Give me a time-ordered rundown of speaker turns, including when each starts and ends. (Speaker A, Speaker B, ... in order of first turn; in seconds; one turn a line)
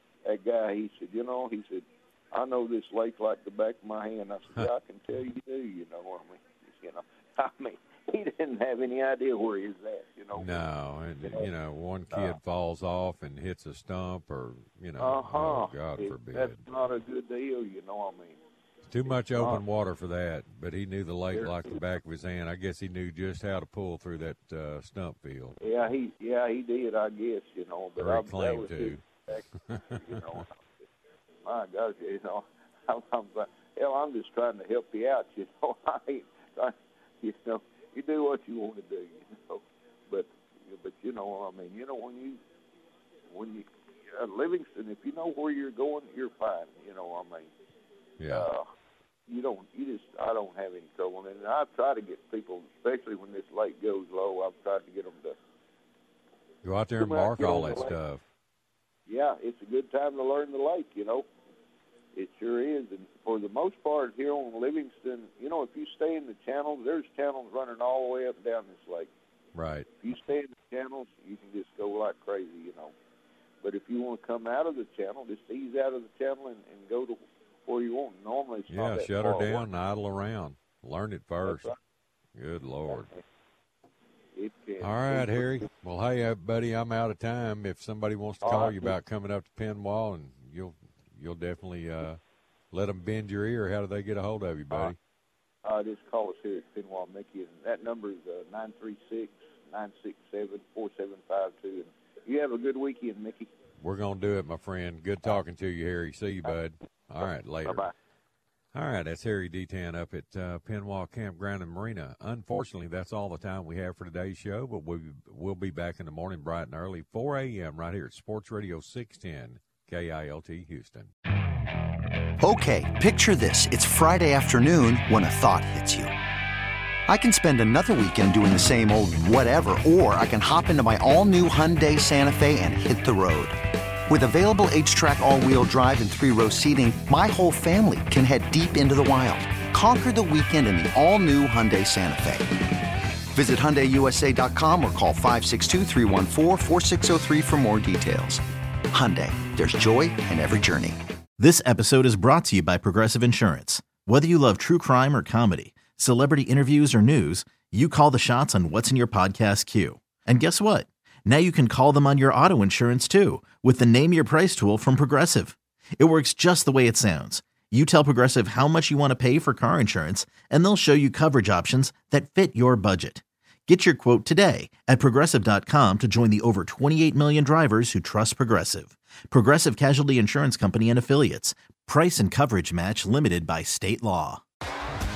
Speaker A: 0.2-10.6
Speaker B: 10.3-16.6
Speaker A: 15.0-18.4
Speaker B: 18.8-25.5
Speaker A: 19.4-19.6
Speaker A: 21.3-21.8
Speaker A: 25.6-30.6
Speaker B: 28.0-29.0
Speaker B: 29.7-30.4
Speaker A: 31.4-42.4
Speaker A: 43.3-47.5
Speaker B: 48.2-48.5
Speaker A: 48.3-48.7
Speaker A: 49.3-55.4
Speaker B: 56.6-58.2
Speaker A: 57.0-58.0
Speaker A: 59.1-61.3
Speaker A: 62.1-69.1
Speaker B: 69.5-69.9
Speaker A: 70.0-72.9
Speaker A: 73.6-79.6
Speaker B: 78.7-81.7
Speaker A: 81.4-81.8
Speaker B: 82.3-83.1
Speaker A: 82.9-83.2
Speaker A: 84.3-85.6
Speaker B: 84.8-92.2
Speaker A: 88.4-88.9
Speaker B: 92.7-95.0
Speaker A: 95.6-103.5
Speaker B: 103.8-107.9
Speaker B: 108.7-121.1
Speaker C: 122.4-126.1
Speaker C: 127.1-133.6
Speaker C: 134.1-142.6
Speaker C: 143.3-151.0
Speaker D: 151.4-184.4